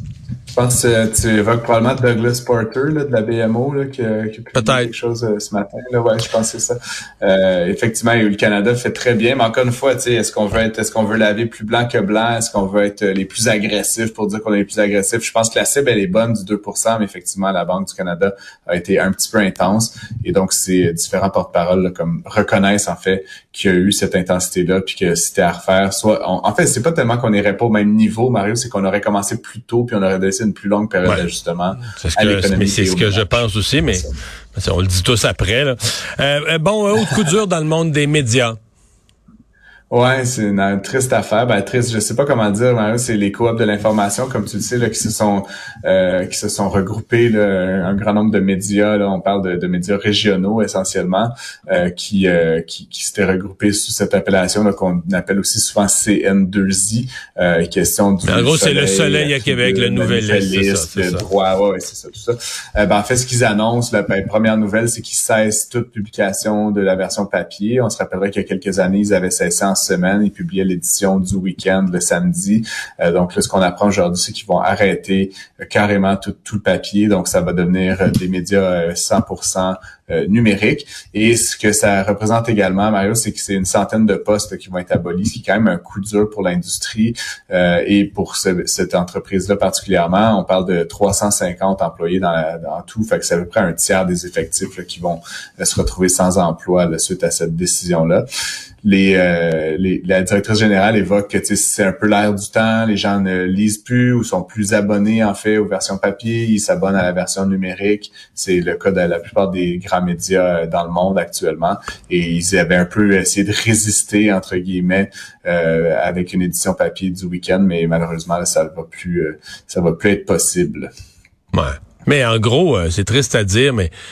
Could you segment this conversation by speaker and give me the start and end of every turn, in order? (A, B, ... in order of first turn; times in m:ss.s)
0:00.5-0:34.2 A
0:04.6-0:04.9 B
0:31.8-0:38.6 B
0:39.9-1:38.2 A
0:58.2-1:01.2 B
1:38.8-2:00.9 A
2:01.5-2:03.9 B